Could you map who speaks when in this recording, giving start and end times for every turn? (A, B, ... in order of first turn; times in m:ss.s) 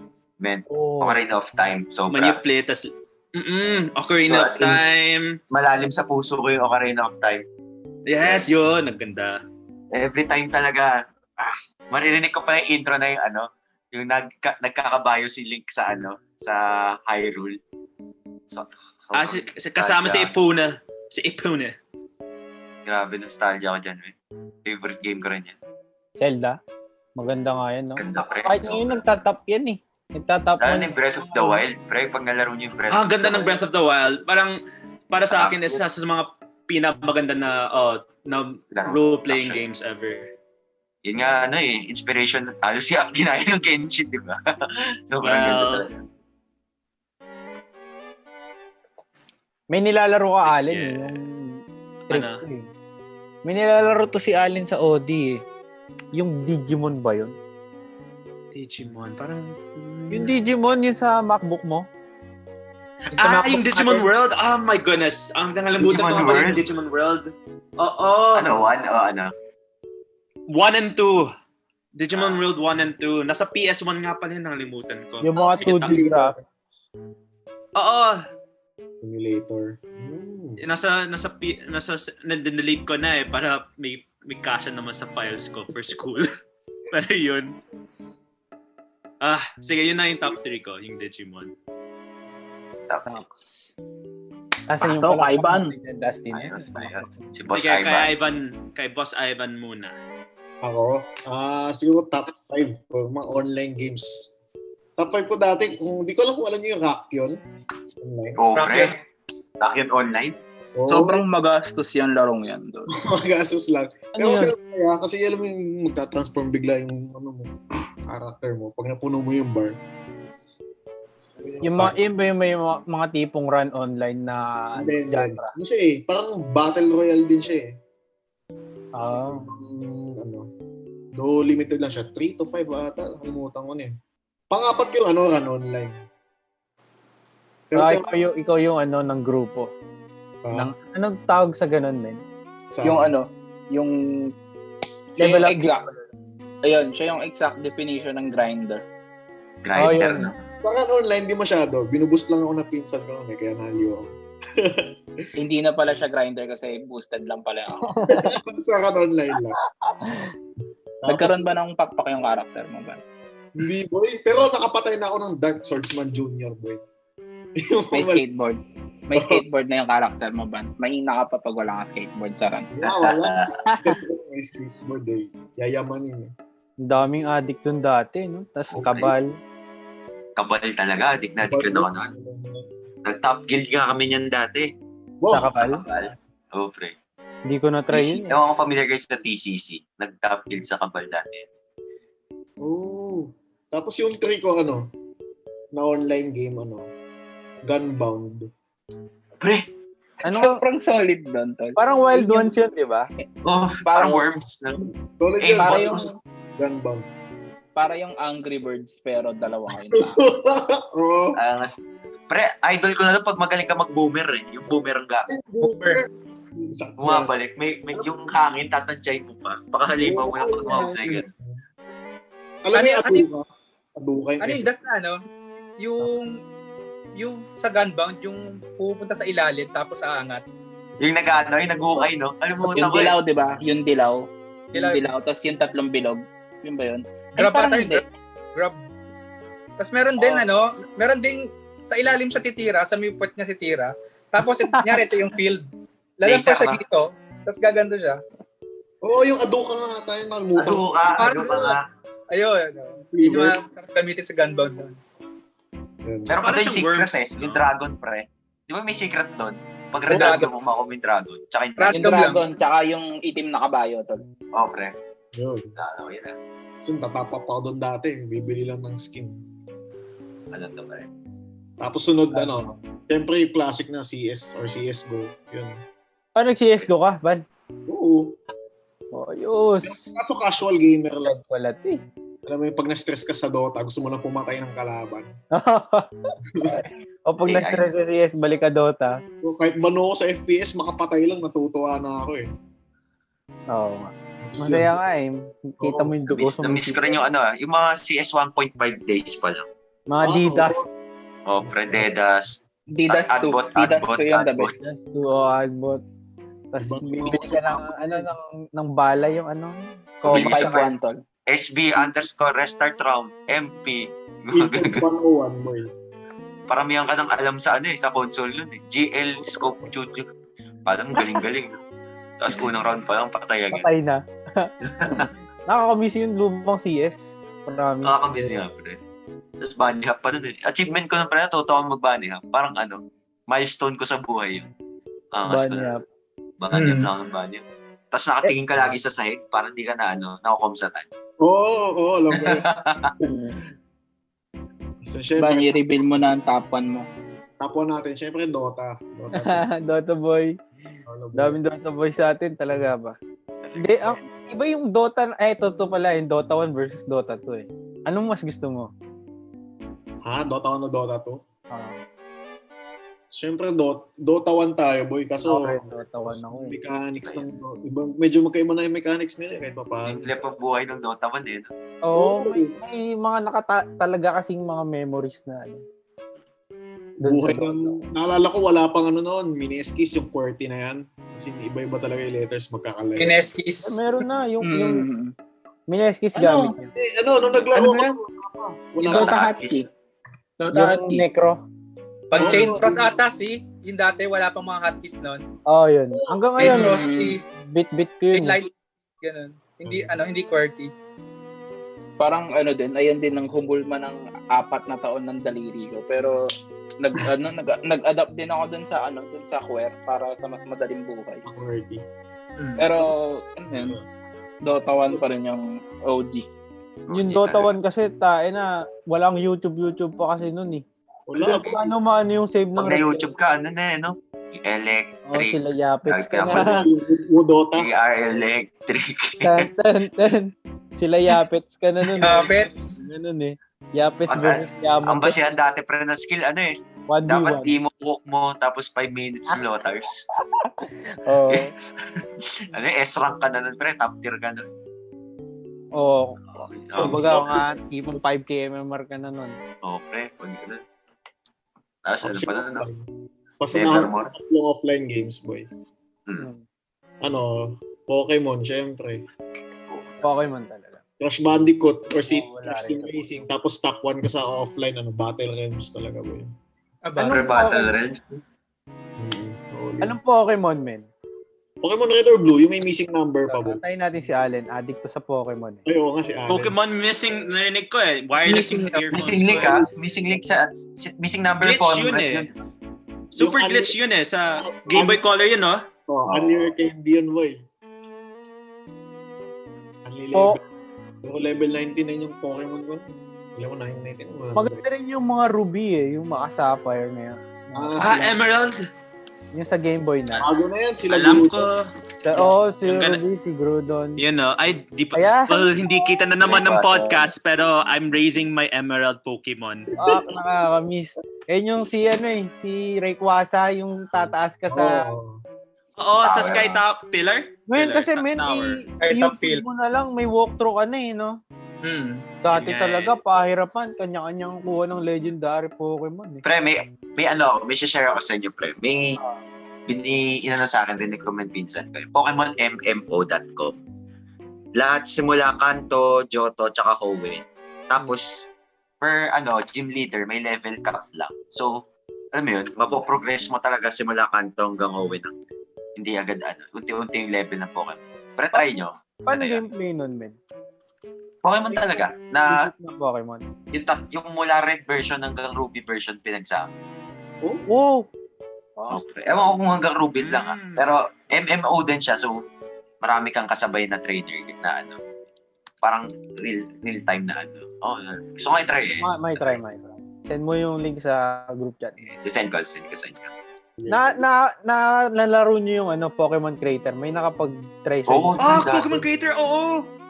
0:00.4-0:02.4 A
0:00.7-0:01.2 B
0:02.1-0:05.4 C
0:04.3-0:04.8 A
0:05.5-0:07.4 A
0:08.0-0:09.4 C
0:08.1-0:08.5 A
0:09.9-0:17.6 A
0:18.5-0:20.3 A
0:19.1-0:21.7 C
0:22.8-0:24.1 A
0:24.6-0:25.5 A
0:26.2-0:26.6 B
0:27.2-0:31.6 B
0:28.0-0:29.0 A
0:30.6-0:33.6 A
0:32.9-0:34.6 C
0:35.1-0:40.3 C
0:35.3-0:35.8 A
0:38.7-0:39.6 A
0:41.0-0:46.0 A
0:45.2-0:45.9 C
0:49.7-0:52.7 B
0:50.4-0:51.2 C
0:52.1-0:52.4 C
0:53.4-0:55.4 B
0:56.1-0:57.4 B
0:58.5-1:00.4 C
1:00.1-1:01.8 B
1:03.1-1:04.1 D
1:03.2-1:08.6 C
1:05.8-1:06.6 A
1:08.3-1:09.3 A
1:10.5-1:11.3 C
1:12.0-1:15.9 C
1:12.1-1:12.4 A
1:15.2-1:16.3 B
1:15.4-1:16.4 E
1:17.7-1:18.2 C
1:19.0-1:20.6 E
1:20.6-1:26.3 C
1:26.9-1:27.6 C
1:29.2-1:31.5 C
1:32.9-1:33.2 A
1:33.1-1:33.6 B
1:34.7-1:37.3 B
1:34.8-1:35.7 F
1:36.4-1:36.9 F
1:36.5-1:38.2 A
1:37.5-1:40.0 C
1:40.6-1:44.3 E
1:45.0-1:47.4 E
1:48.0-1:48.4 E
1:48.4-1:49.0 A
1:48.6-1:48.8 C
1:49.6-1:50.4 A
1:50.8-1:51.2 E
1:50.9-1:52.9 F
1:52.9-1:59.8 E
1:54.1-1:54.5 B
2:01.2-2:02.0 E
2:01.6-2:05.5 B
2:04.8-2:07.7 E
2:09.0-2:09.5 B
2:09.0-2:10.5 E
2:11.2-2:13.9 E
2:14.5-2:16.0 E
2:17.7-2:18.1 E
2:17.7-2:19.7 B
2:20.4-2:20.7 E
2:20.5-2:22.2 B
2:22.7-2:23.1 E
2:22.8-2:24.3 F
2:25.2-2:26.0 B
2:25.2-2:25.8 F
2:26.6-2:28.8 F
2:29.6-2:30.4 A
2:29.8-2:30.3 B
2:30.6-2:34.9 E
2:35.4-2:38.0 F
2:37.9-2:38.3 B
2:38.1-2:39.6 E
2:40.0-2:40.3 B
2:41.0-2:41.5 E
2:41.1-2:43.0 F
2:43.6-2:46.8 E
2:47.6-2:48.2 E
2:47.9-2:52.7 F
2:49.1-2:49.4 E
2:52.7-2:56.3 E
2:52.8-2:53.5 A
2:56.8-2:59.4 B
2:58.7-2:59.1 A
3:00.4-3:02.1 A
3:01.4-3:02.6 E
3:03.0-3:04.7 A
3:05.2-3:06.0 E
3:05.3-3:05.8 B
3:05.5-3:06.9 A
3:07.5-3:08.4 B
3:07.9-3:11.5 A
3:12.6-3:14.9 E
3:15.7-3:16.9 E
3:17.6-3:18.5 E
3:19.4-3:19.7 A
3:20.2-3:20.6 B
3:20.2-3:22.5 F
3:21.8-3:23.1 B
3:23.4-3:24.8 A
3:23.8-3:24.3 F
3:25.0-3:26.0 E
3:25.4-3:26.1 A
3:25.6-3:26.1 F
3:26.6-3:27.1 E
3:27.8-3:30.2 F
3:29.9-3:31.4 E
3:31.3-3:35.3 A
3:35.3-3:36.0 E
3:35.6-3:36.0 D
3:36.6-3:37.3 E
3:37.0-3:41.3 A
3:40.0-3:41.6 E
3:42.6-3:43.4 E
3:42.7-3:43.2 D
3:44.0-3:44.7 E
3:44.4-3:45.2 D
3:45.8-3:46.4 D
3:47.2-3:50.4 D
3:51.0-3:53.1 A
3:51.9-3:53.0 E
3:52.7-3:58.0 F
3:54.7-3:55.1 D
3:57.4-3:58.8 D
3:59.8-4:05.6 D
4:06.2-4:08.2 D
4:06.2-4:06.8 A
4:09.0-4:10.8 E
4:10.5-4:11.8 A
4:11.2-4:11.8 D
4:12.3-4:15.0 D
4:13.1-4:13.6 E
4:16.0-4:16.4 E
4:16.3-4:22.3 A
4:16.4-4:17.6 C
4:20.1-4:20.5 D
4:21.8-4:22.4 D
4:21.9-4:24.2 F
4:24.5-4:24.9 A
4:25.3-4:25.7 E
4:25.8-4:26.4 A
4:26.8-4:29.4 E
4:30.5-4:31.1 A
4:31.8-4:35.8 E
4:32.3-4:32.8 B
4:36.4-4:37.4 B
4:37.9-4:38.4 E
4:39.1-4:40.1 B
4:39.8-4:41.4 E
4:41.2-4:42.0 B
4:42.4-4:45.3 E
4:45.5-4:46.1 B
4:46.5-4:46.8 E
4:46.7-4:49.2 B
4:47.4-4:47.9 A
4:49.4-4:52.5 E
4:53.7-4:57.2 B
4:54.4-4:55.0 E
4:55.8-4:56.2 E
4:56.3-4:59.6 A
5:00.1-5:00.9 B
5:00.2-5:00.9 E
5:01.4-5:04.8 A
5:01.6-5:02.0 E
5:02.9-5:04.8 F
5:04.8-5:06.0 B
5:06.7-5:10.7 B
5:06.8-5:08.3 E
5:10.2-5:10.9 A
5:10.2-5:11.2 F
5:11.5-5:15.0 A
5:14.5-5:15.9 E
5:16.7-5:20.3 A
5:20.8-5:21.8 A
5:22.4-5:23.9 A
5:23.7-5:28.2 B
5:24.8-5:25.3 A
5:28.0-5:29.0 A
5:29.6-5:34.7 A
5:35.3-5:35.9 A
5:35.5-5:36.0 B
5:36.6-5:41.1 A
5:36.7-5:37.1 D
5:41.4-5:42.6 E
5:42.3-5:43.1 A
5:43.2-5:43.6 F
5:45.0-5:45.8 E
5:45.4-5:47.1 F
5:47.6-5:49.6 E
5:49.3-5:50.6 B
5:51.1-5:51.6 E
5:51.3-5:53.2 B
5:53.8-5:58.9 B
6:00.2-6:01.4 E
6:01.7-6:02.0 B
6:03.3-6:10.3 E
6:05.4-6:06.8 B
6:07.2-6:07.5 A
6:10.0-6:11.7 A
6:12.0-6:15.8 B
6:12.1-6:12.7 E
6:17.2-6:18.0 B
6:17.2-6:23.4 E
6:23.2-6:24.0 D
6:23.8-6:25.1 B
6:24.6-6:25.3 F
6:25.9-6:26.9 B
6:26.3-6:26.7 F
6:26.9-6:29.4 E
6:27.7-6:28.2 F
6:29.0-6:29.9 F
6:29.0-6:29.8 A
6:30.6-6:31.2 F
6:30.7-6:31.6 B
6:32.3-6:35.4 D
6:32.3-6:33.2 E
6:35.7-6:38.6 B
6:36.1-6:36.7 E
6:36.6-6:37.4 D
6:36.6-6:37.4 F
6:38.3-6:38.7 D
6:39.2-6:40.9 D
6:39.8-6:40.1 E
6:42.2-6:46.4 F
6:47.0-6:51.4 F
6:51.4-6:52.0 E
6:52.6-6:52.9 D
6:52.8-6:54.0 F
6:53.7-6:54.0 E
6:54.6-6:56.4 F
6:57.1-6:57.7 A
6:57.1-7:00.8 B
7:01.3-7:01.9 E
7:01.4-7:01.7 A
7:01.5-7:03.3 B
7:02.8-7:06.9 A
7:05.2-7:06.9 B
7:06.5-7:07.9 E
7:07.8-7:09.7 A
7:09.4-7:15.4 B
7:12.1-7:13.0 D
7:14.3-7:16.7 A
7:17.1-7:17.7 B
7:17.2-7:20.2 A
7:20.4-7:21.7 B
7:21.5-7:24.6 A
7:26.0-7:29.6 B
7:26.6-7:27.6 A
7:27.0-7:28.2 E
7:29.8-7:30.8 A
7:32.0-7:32.9 A
7:32.2-7:33.1 E
7:33.6-7:35.7 E
7:33.7-7:34.3 A
7:36.4-7:36.6 B
7:37.2-7:39.2 E
7:39.9-7:40.2 A
7:40.2-7:41.0 B
7:41.2-7:46.5 E
7:42.3-7:43.4 B
7:47.0-7:47.5 D
7:47.2-7:47.9 B
7:47.2-7:48.4 A
7:49.2-7:50.2 E
7:50.0-7:51.1 B
7:51.8-7:53.8 E
7:53.5-7:55.8 B
7:55.8-7:56.7 E
7:56.5-7:59.8 C
7:58.4-7:59.2 D
7:59.1-8:02.5 A
8:01.6-8:02.5 C
8:03.3-8:05.9 C
8:03.4-8:04.0 E
8:04.6-8:05.2 E
8:06.1-8:07.6 E
8:10.0-8:10.6 E
8:10.3-8:10.6 B
8:11.2-8:14.8 E
8:14.5-8:18.3 B
8:17.7-8:18.3 E
8:18.0-8:18.9 C
8:19.5-8:20.5 B
8:20.4-8:21.7 E
8:21.1-8:21.9 C
8:22.2-8:24.2 B
8:22.8-8:23.2 C
8:24.2-8:29.9 C
8:25.1-8:25.7 B
8:26.4-8:27.3 A
8:30.0-8:35.1 B
8:30.0-8:30.4 E
8:34.7-8:35.4 E
8:36.0-8:38.8 C
8:36.2-8:36.8 A
8:37.7-8:41.4 B
8:39.0-8:39.6 D
8:41.8-8:42.3 D
8:42.4-8:46.4 B
8:42.5-8:43.2 C
8:46.4-8:49.2 A
8:49.9-8:53.8 A
8:54.8-8:58.5 A
8:59.0-9:05.3 A
9:06.0-9:09.6 A
9:08.5-9:10.4 B
9:11.4-9:12.7 A
9:11.7-9:13.4 B
9:13.7-9:16.7 A
9:17.7-9:18.1 B
9:18.8-9:19.0 B
9:18.9-9:22.4 A
9:20.2-9:20.9 C
9:23.0-9:25.0 A
9:25.8-9:29.1 A
9:28.9-9:32.2 B
9:32.2-9:33.3 A
9:33.8-9:34.2 E
9:33.9-9:38.4 B
9:38.1-9:39.0 A
9:38.4-9:39.9 C